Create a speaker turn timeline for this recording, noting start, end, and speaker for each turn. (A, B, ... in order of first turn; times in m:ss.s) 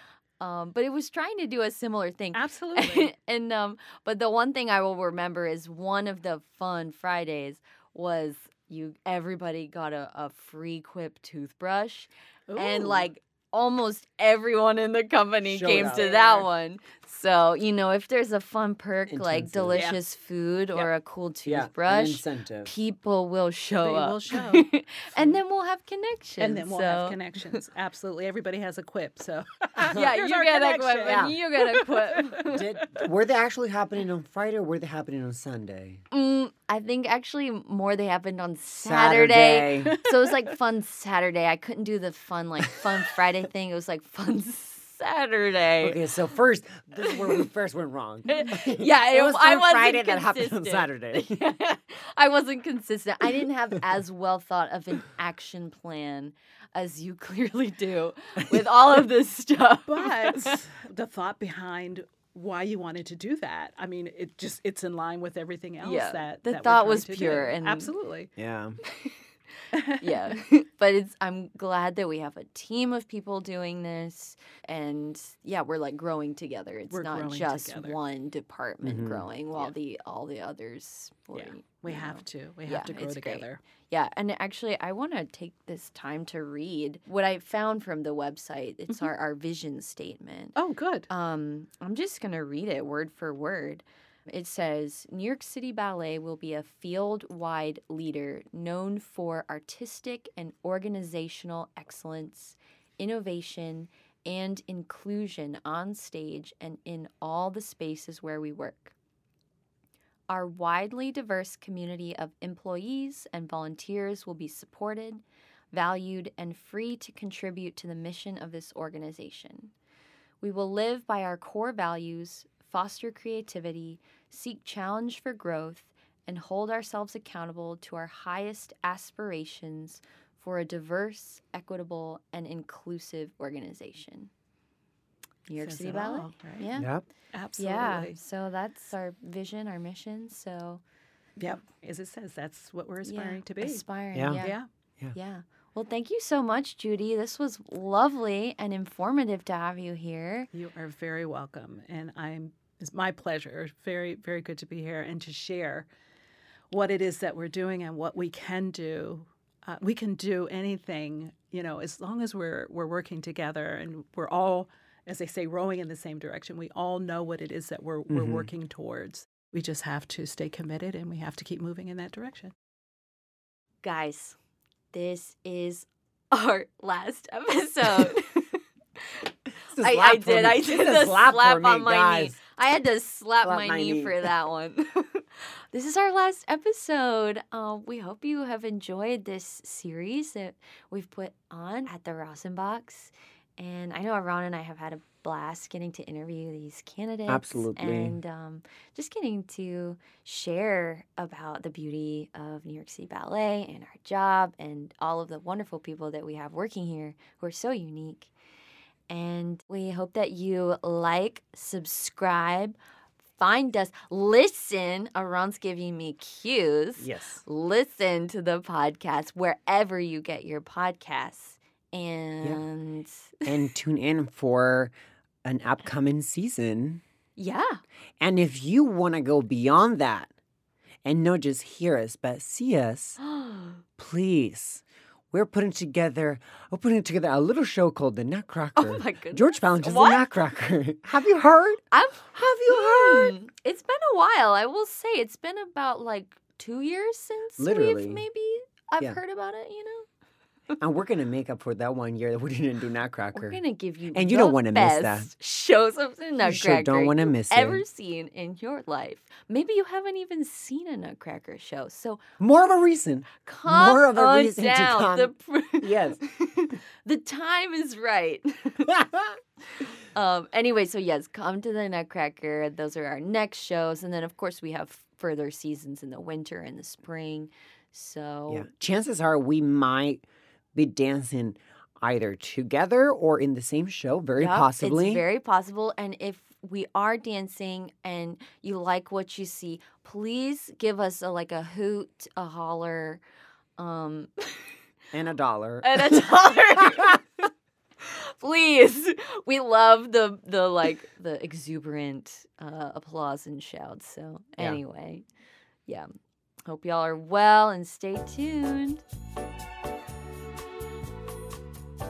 0:00.4-0:27.6 A
0:02.3-0:03.1 B
0:12.5-0:13.1 B
0:15.5-0:16.1 C
0:15.7-0:16.5 B
0:19.1-0:19.8 C
0:19.7-0:20.0 B
0:21.4-0:22.7 C
0:23.8-0:25.4 B
0:26.4-0:33.0 B
0:29.9-0:32.5 A
0:31.0-0:31.3 C
0:32.4-0:36.0 C
0:36.1-0:46.0 A
0:38.8-0:40.0 C
0:39.9-0:40.5 B
0:45.8-0:51.4 C
0:47.1-0:47.4 A
0:48.3-1:00.6 A
0:59.9-1:08.3 B
1:05.8-1:07.9 A
1:08.4-1:08.8 C
1:09.7-1:10.4 B
1:10.0-1:30.5 A
1:16.9-1:18.0 B
1:18.8-1:19.2 C
1:21.3-1:23.6 B
1:30.6-1:31.1 B
1:31.1-1:48.9 A
1:50.3-1:59.7 A
2:00.4-2:14.3 A
2:15.5-2:16.9 A
2:15.6-2:16.7 B
2:16.8-2:17.0 C
2:17.3-2:18.2 B
2:17.6-2:20.8 A
2:21.4-2:23.8 B
2:23.0-2:24.6 A
2:24.1-2:24.4 C
2:24.4-2:24.6 B
2:25.1-2:30.5 A
2:30.5-2:35.9 B
2:36.7-2:52.5 B
2:48.1-2:48.5 C
2:53.8-2:54.4 A
2:54.9-2:59.3 A
2:59.7-3:02.4 C
2:59.8-3:28.3 A
3:03.4-3:04.3 C
3:17.3-3:18.2 C
3:29.1-3:32.8 A
3:33.4-3:43.5 A
3:37.0-3:37.4 C
3:43.4-3:47.0 C
3:47.4-3:47.8 A
3:48.2-3:50.3 C
3:51.0-3:53.2 C
3:53.2-3:53.8 A
3:54.0-4:01.8 C
3:58.8-4:00.3 A
4:01.9-4:10.1 A
4:02.4-4:03.3 C
4:07.6-4:08.2 C
4:10.8-4:13.6 C
4:13.3-4:22.2 A
4:14.1-4:15.3 C
4:16.4-4:17.8 C
4:22.4-4:26.2 C
4:23.4-4:29.2 A
4:29.8-4:38.7 A
4:38.5-4:45.2 C
4:44.4-4:53.2 A
4:53.8-4:54.7 A
4:55.1-4:56.3 C
4:55.8-4:57.5 A
4:58.0-5:05.2 A
5:06.6-5:09.0 A